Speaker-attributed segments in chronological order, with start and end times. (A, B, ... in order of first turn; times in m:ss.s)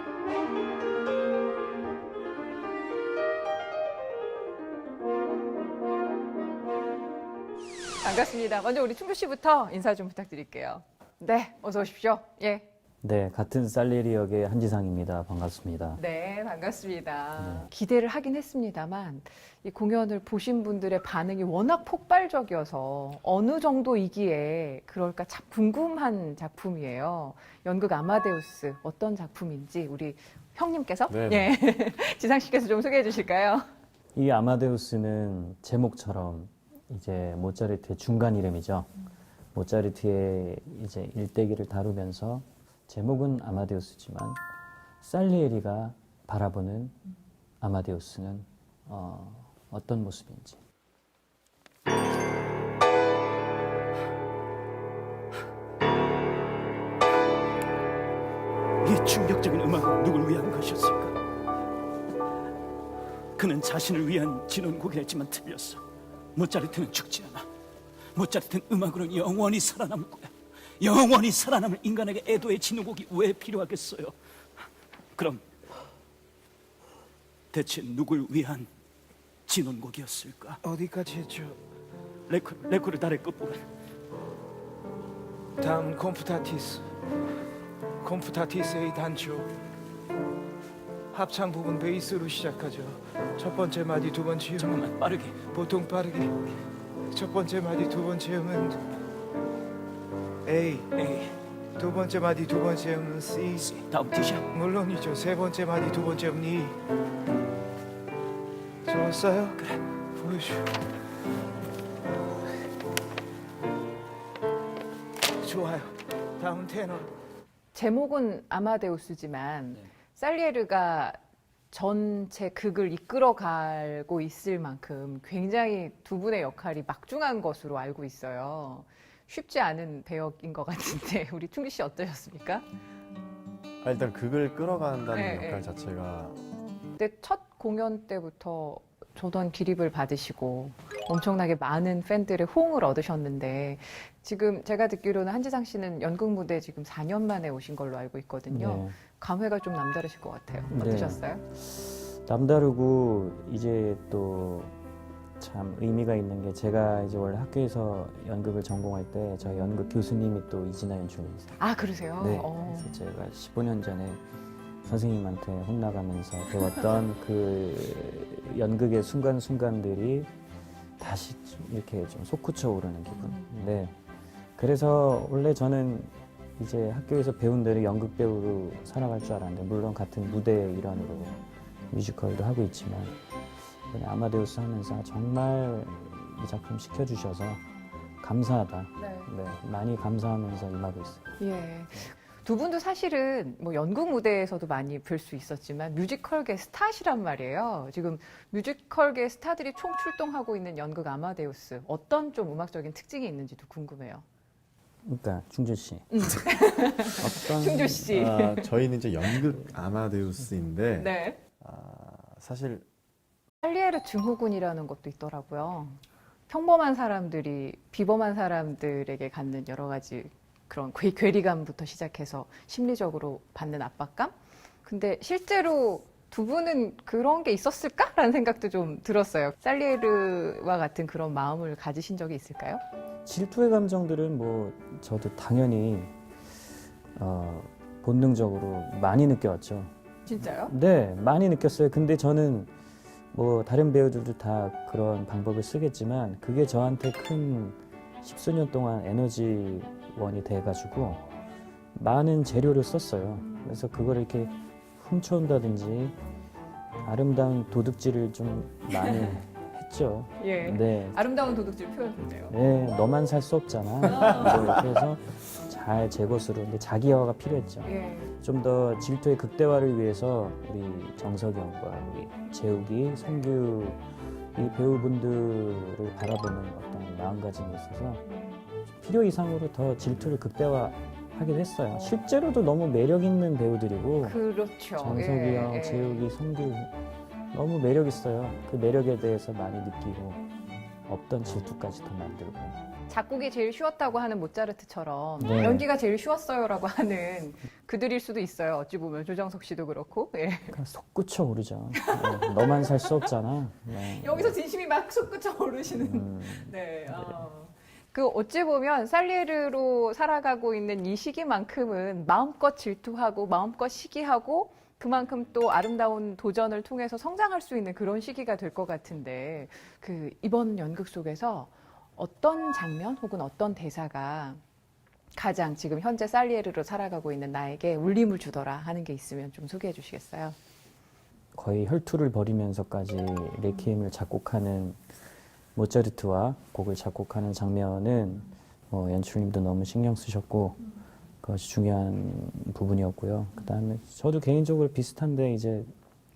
0:08.0-0:12.6 A
0:13.0-0:16.0 B
0:16.0-0:33.6 A
0:17.4-0:17.7 B
0:31.1-0:31.5 C
0:34.1-0:38.9 B
0:39.5-0:44.4 B
0:45.0-0:47.0 B
0:47.6-0:50.6 B
0:58.8-1:01.1 D
1:03.4-1:05.8 D
1:06.3-1:07.5 D
1:08.1-1:14.1 D
1:15.1-1:15.4 D
1:17.5-1:18.7 D
1:19.5-1:20.6 D
1:20.6-1:21.6 E
1:22.3-1:23.6 D
1:25.6-1:26.9 E
1:28.0-1:29.5 E
1:31.1-1:34.8 E
1:34.6-1:35.4 D
1:35.4-1:36.4 E
1:37.1-1:38.8 E
1:40.4-1:43.7 E
1:43.6-1:44.4 D
1:44.5-1:46.8 E
1:48.8-1:50.7 E
1:55.4-1:57.1 E
1:57.7-2:01.2 A
2:01.7-2:12.6 A
2:13.8-2:16.4 C
2:15.1-2:15.7 A
2:17.0-2:31.4 A
2:28.5-2:29.0 B
2:30.7-2:34.7 B
2:35.4-2:41.6 B
2:41.6-2:42.9 A
2:42.2-2:44.2 B
2:44.8-2:50.3 B
2:51.0-2:53.9 B
2:54.6-3:01.4 B
3:01.9-3:03.2 B
3:03.9-3:07.6 B
3:08.2-3:11.3 B
3:09.0-3:09.3 A
3:11.4-3:24.2 A
3:25.0-3:26.5 B
3:26.1-3:28.7 A
3:27.1-3:28.2 B
3:28.1-3:32.9 C
3:31.0-3:31.4 A
3:33.6-3:52.8 A
3:53.2-3:56.1 B
3:57.2-4:02.7 B
4:00.2-4:00.7 A
4:03.3-4:11.2 B
4:11.9-4:16.2 B
4:17.0-4:21.2 B
4:20.4-4:22.6 A
4:22.5-4:34.0 B
4:24.1-4:24.7 A
4:27.8-4:28.3 A
4:34.5-4:38.2 B
4:38.2-4:38.6 A
4:38.9-4:44.4 B
4:44.2-4:46.2 A
4:45.0-4:46.9 B
4:47.5-4:50.4 B
4:51.1-4:52.8 B
4:53.1-5:00.8 A
4:55.4-4:55.8 B
5:00.7-5:04.6 B
5:02.0-5:03.0 A
5:04.1-5:24.6 A
5:05.9-5:07.4 B
5:25.4-5:30.6 A
5:31.5-5:35.0 B
5:35.7-5:40.8 B
5:41.4-5:45.9 B